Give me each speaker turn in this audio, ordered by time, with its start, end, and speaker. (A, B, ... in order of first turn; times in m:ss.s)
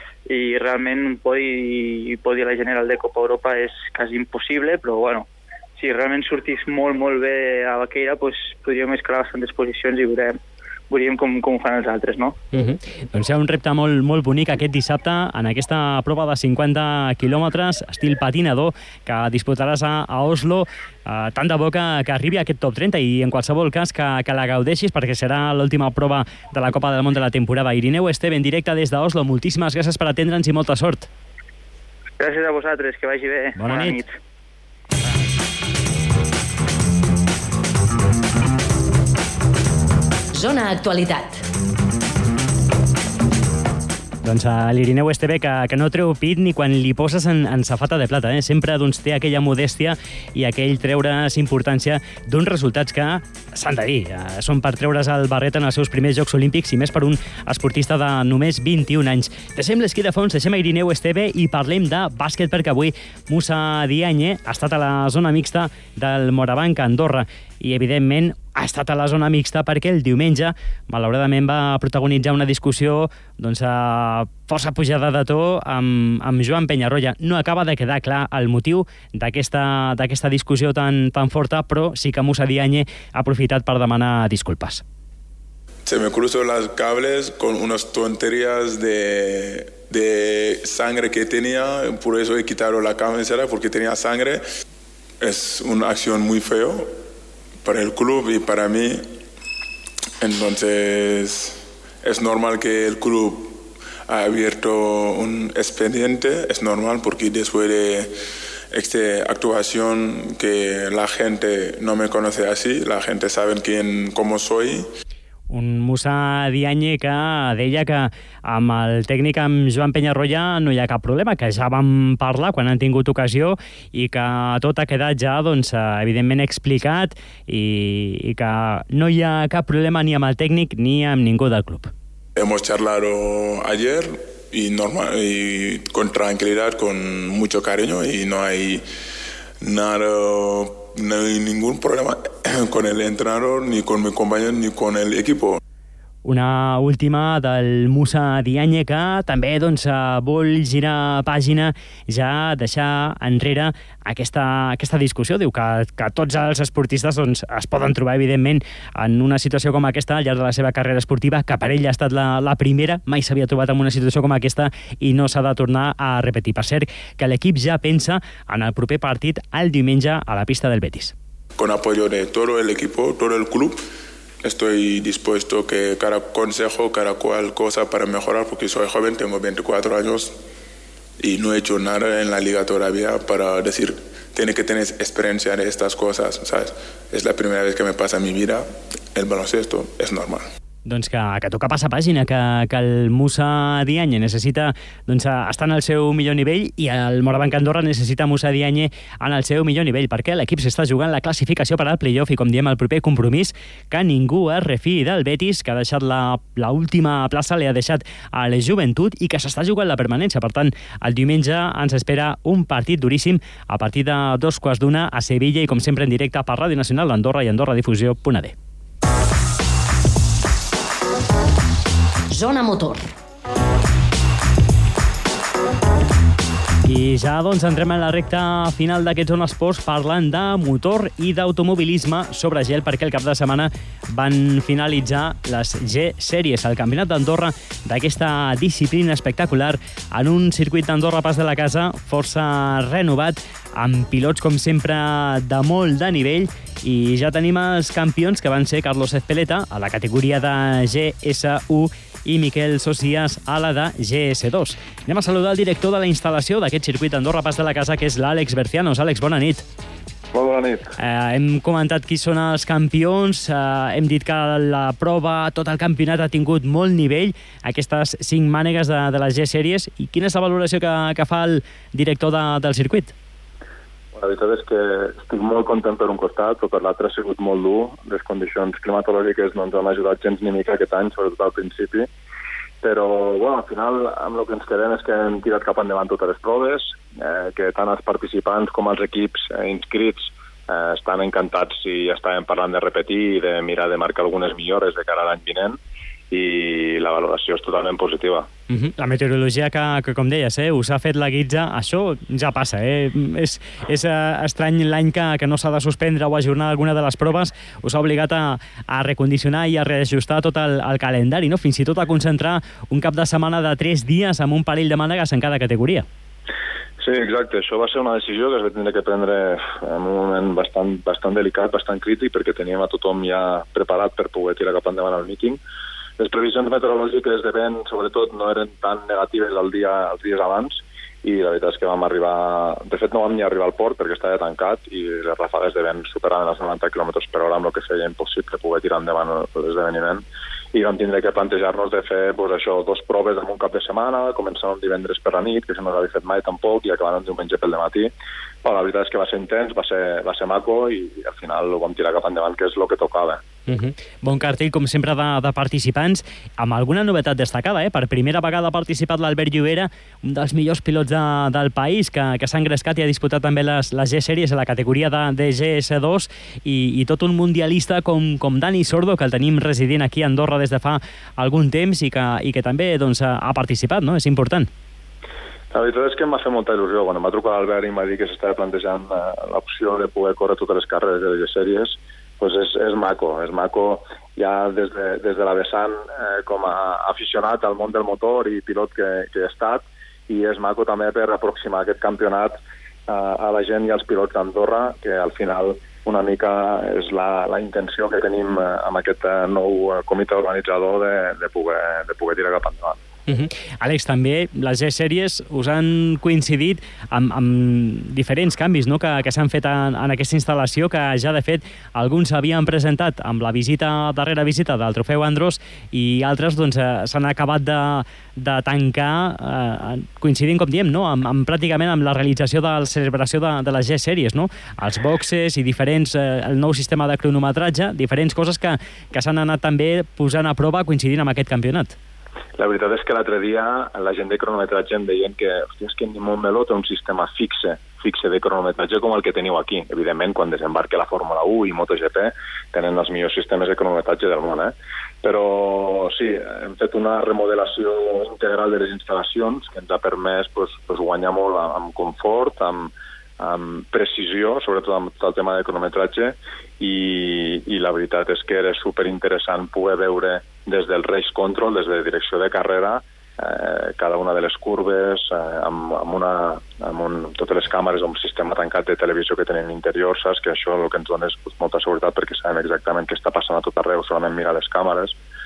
0:00.3-0:10.4 A
0:10.9-0:12.4 A
0:12.5-0:31.1 B
0:32.2-0:34.2 A
0:33.6-0:34.0 B
0:40.3-0:41.4 C
0:44.2-1:24.8 B
1:25.8-1:34.4 D
1:35.2-1:36.9 D
1:37.6-1:39.0 D
1:40.2-1:48.1 D
1:48.7-1:54.9 D
1:55.5-2:11.9 B
2:12.4-2:18.8 D
2:19.6-2:25.6 D
2:26.2-2:51.1 B
2:51.6-2:53.8 D
2:54.4-3:00.4 D
3:01.2-3:10.4 D
3:10.8-3:38.5 B
3:42.3-3:43.1 C
3:46.8-4:19.7 B
4:20.3-4:20.9 E
4:21.0-4:33.1 B
4:34.2-4:42.1 E
4:42.8-4:55.8 E
4:56.3-4:58.5 E
4:58.7-5:16.1 B
5:17.0-5:25.6 E
5:26.2-5:48.1 E
5:48.6-5:53.4 E
5:53.7-6:14.7 B
6:15.7-6:43.0 E
6:43.3-7:12.0 B
7:12.6-7:55.2 E